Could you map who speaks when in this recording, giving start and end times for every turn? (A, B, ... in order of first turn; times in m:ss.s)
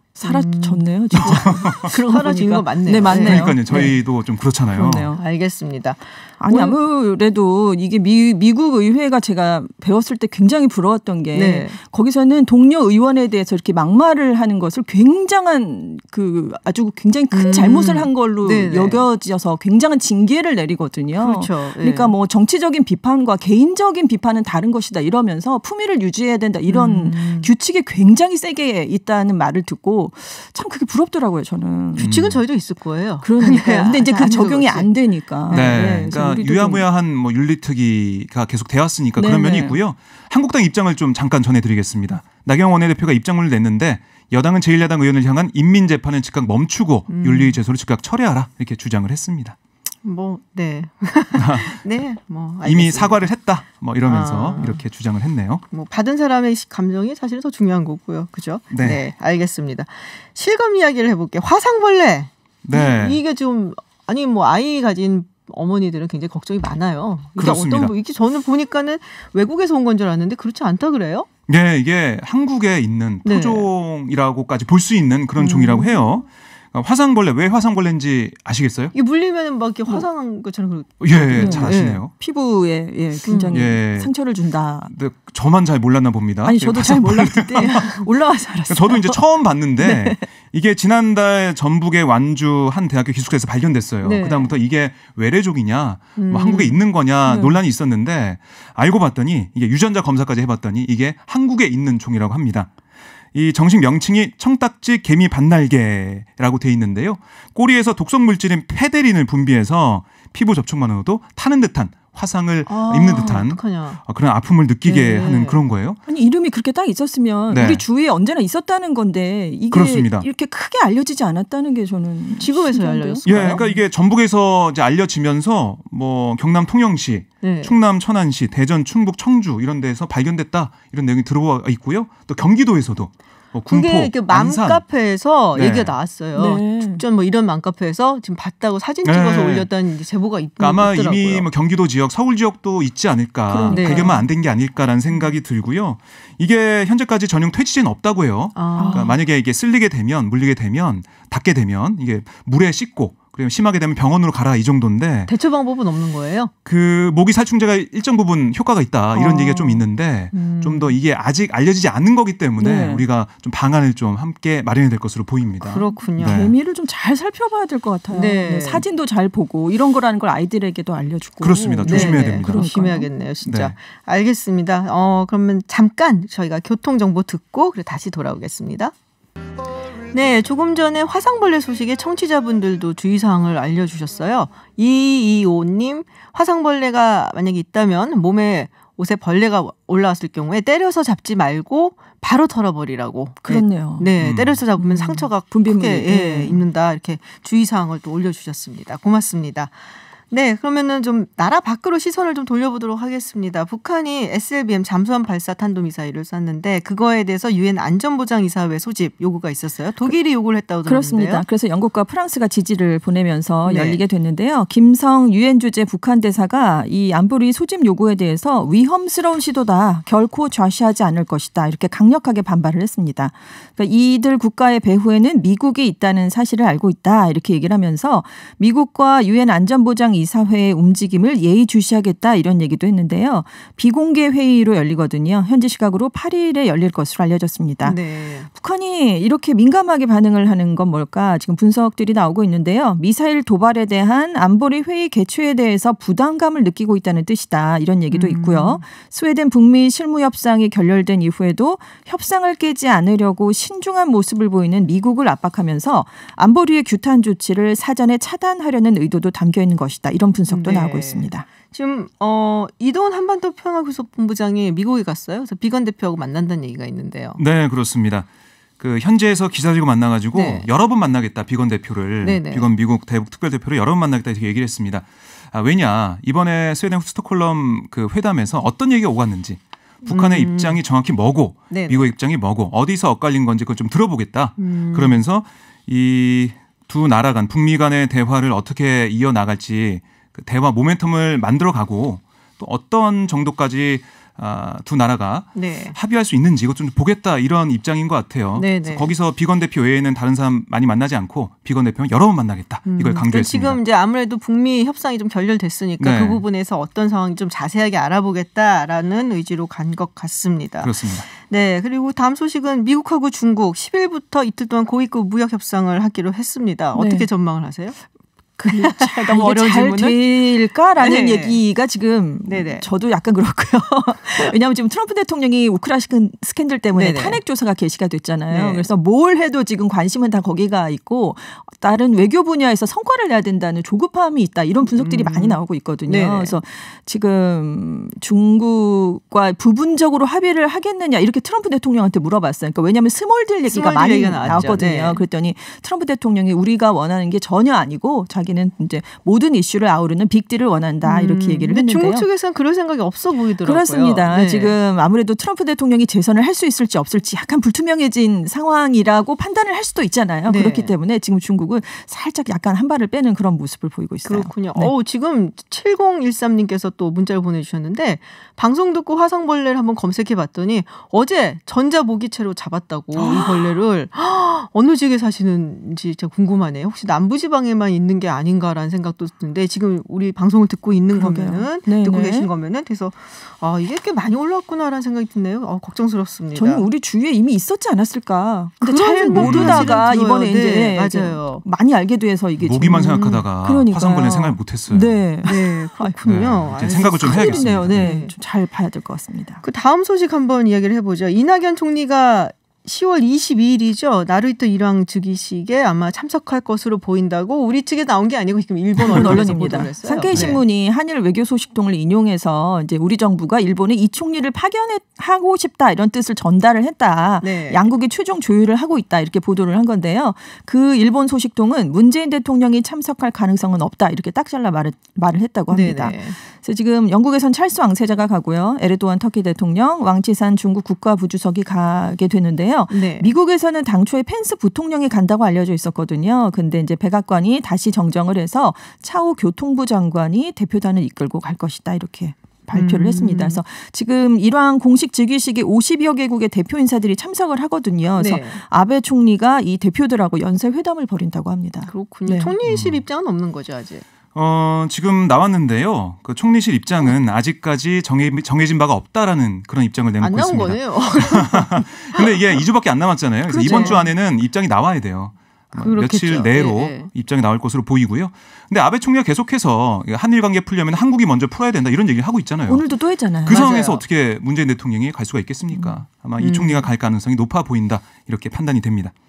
0:00.2-0:03.9 A
0:00.2-0:04.0 B
0:01.2-0:01.9 C
0:03.0-0:05.1 C
0:04.7-0:05.2 A
0:05.1-0:06.8 B
0:06.4-0:32.0 A
0:11.3-0:11.8 B
0:17.3-0:19.1 B
0:21.1-0:22.1 B
0:26.6-0:27.5 B
0:32.0-0:32.4 C
0:32.0-0:34.9 B
0:33.2-0:36.8 A
0:35.5-0:35.8 B
0:35.5-0:49.6 C
0:39.2-0:39.8 A
0:47.1-0:47.6 B
0:50.0-0:53.3 B
0:51.4-0:51.8 C
0:52.6-0:55.6 C
0:54.0-0:54.8 B
0:55.7-1:11.3 B
0:58.7-0:59.0 C
1:02.6-1:03.2 C
1:07.4-1:07.9 C
1:11.5-1:18.9 C
1:13.2-1:13.7 B
1:15.4-1:16.2 B
1:18.9-1:22.0 B
1:21.0-1:22.1 C
1:21.4-1:24.9 A
1:23.2-1:23.7 B
1:23.5-1:24.1 C
1:24.9-1:28.0 C
1:26.4-1:29.2 A
1:27.6-1:27.9 B
1:28.7-1:42.7 C
1:29.8-1:30.2 A
1:34.0-1:34.5 B
1:36.2-1:36.8 B
1:37.2-1:37.6 A
1:43.3-1:56.0 C
1:52.6-1:54.0 B
1:54.8-1:55.6 B
1:56.1-2:03.6 A
1:57.5-1:57.8 C
1:59.7-2:00.3 C
2:02.4-2:03.8 B
2:03.2-2:14.8 C
2:07.4-2:07.8 B
2:13.7-2:21.5 B
2:15.5-2:16.0 C
2:16.4-2:17.0 A
2:19.0-2:19.7 C
2:20.6-2:35.3 C
2:23.5-2:24.1 A
2:23.7-2:24.3 B
2:25.1-2:25.4 B
2:28.5-2:29.2 B
2:28.8-2:29.1 A
2:35.3-2:36.5 B
2:36.6-2:46.5 C
2:39.1-2:41.0 B
2:42.6-2:43.0 A
2:45.6-2:46.5 B
2:46.2-2:53.1 A
2:48.1-2:48.9 B
2:51.4-2:52.5 C
2:51.8-2:58.9 B
2:53.4-2:53.7 C
3:00.1-3:31.4 B
3:13.5-3:14.1 A
3:14.2-3:14.6 C
3:14.8-3:16.6 A
3:30.9-3:58.0 A
3:33.6-3:34.0 B
3:57.8-3:58.5 B
3:58.5-4:21.4 A
4:08.1-4:08.8 B
4:20.5-4:27.4 B
4:27.4-4:28.3 C
4:28.8-5:03.8 C
4:30.3-4:30.7 B
4:32.2-4:32.6 B
4:40.1-4:40.8 B
4:41.7-4:42.1 B
4:44.6-4:45.2 B
4:55.5-4:56.0 B
4:58.5-4:59.1 B
5:02.8-5:18.0 B
5:06.0-5:06.4 C
5:10.8-5:11.2 C
5:16.9-5:17.3 A
5:18.6-5:52.3 A
5:18.6-5:21.6 B
5:22.4-5:22.9 B
5:26.9-5:27.4 B
5:28.5-5:28.9 B
5:34.9-5:36.6 B
5:43.7-5:45.2 B
5:51.0-5:54.8 B
5:53.6-6:04.9 A
6:00.5-6:00.9 B
6:04.2-6:26.9 B
6:13.1-6:13.8 A
6:21.1-6:22.5 A
6:26.5-6:36.1 A
6:28.8-6:31.6 B
6:29.4-6:30.0 C
6:32.6-6:35.3 C
6:32.8-6:33.4 B
6:35.4-6:38.4 B
6:36.2-6:38.1 C
6:37.2-6:39.6 A
6:39.6-6:50.6 B
6:49.0-6:49.4 C
6:49.0-7:32.5 A
6:50.3-6:50.6 C
6:57.4-6:57.8 B
7:05.7-7:06.4 B
7:12.9-7:13.3 B
7:22.7-7:23.6 B
7:28.2-7:28.6 B
7:31.9-7:34.0 B
7:32.6-7:33.0 C
7:34.4-7:52.9 C
7:40.2-7:42.3 B
7:43.5-7:44.1 B
7:43.5-7:44.1 A
7:45.7-7:47.1 B
7:52.7-7:53.7 A
7:53.4-7:59.1 C
7:53.5-7:54.0 B
7:55.7-7:56.0 A
7:56.4-7:56.9 B